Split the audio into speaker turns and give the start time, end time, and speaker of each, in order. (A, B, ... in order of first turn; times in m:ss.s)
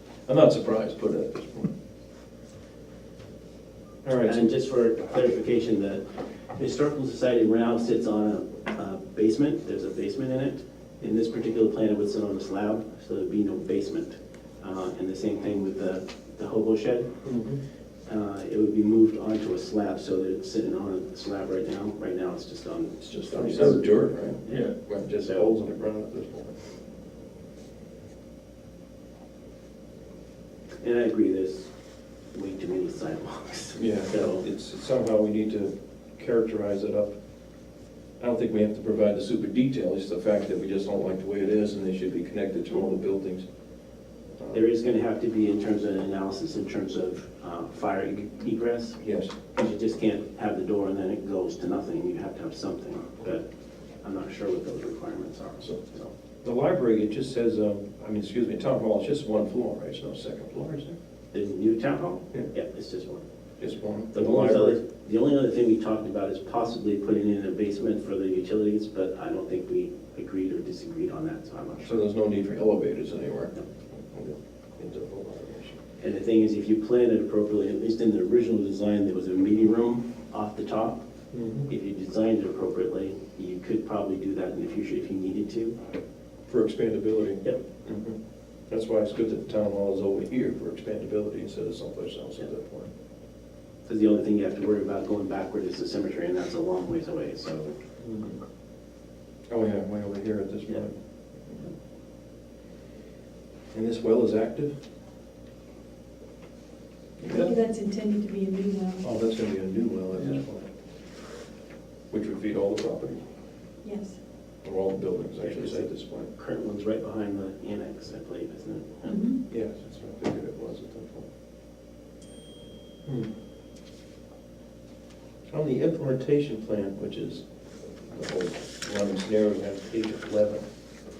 0:00.2-0:01.7 A
0:04.0-0:04.5 A
0:04.2-0:06.0 B
0:06.6-0:17.1 B
0:17.2-0:17.6 A
0:18.1-0:25.5 B
0:23.0-0:26.6 A
0:30.8-0:31.7 B
0:32.3-0:34.4 B
0:33.8-0:37.2 A
0:38.2-0:43.4 A
0:44.5-0:49.0 B
0:49.0-0:49.3 A
0:49.6-0:53.4 B
0:54.0-0:56.1 B
0:56.4-1:01.0 A
1:01.3-1:03.2 B
1:03.6-1:04.8 A
1:04.1-1:12.0 B
1:11.8-1:15.8 A
1:16.0-1:21.0 B
1:21.3-1:21.7 A
1:21.7-1:25.8 B
1:26.5-1:28.2 A
1:28.7-1:32.9 A
1:33.9-1:37.7 B
1:38.0-1:38.4 A
1:39.5-1:41.7 A
1:43.7-1:44.8 A
1:47.2-1:47.5 A
1:47.3-1:49.0 C
1:49.0-1:50.7 A
1:52.1-1:53.2 A
1:53.8-1:54.2 C
1:54.6-1:56.3 A
1:55.4-1:59.2 B
1:59.0-1:59.4 C
1:59.5-2:01.3 A
2:05.5-2:07.4 A
2:08.0-2:10.6 A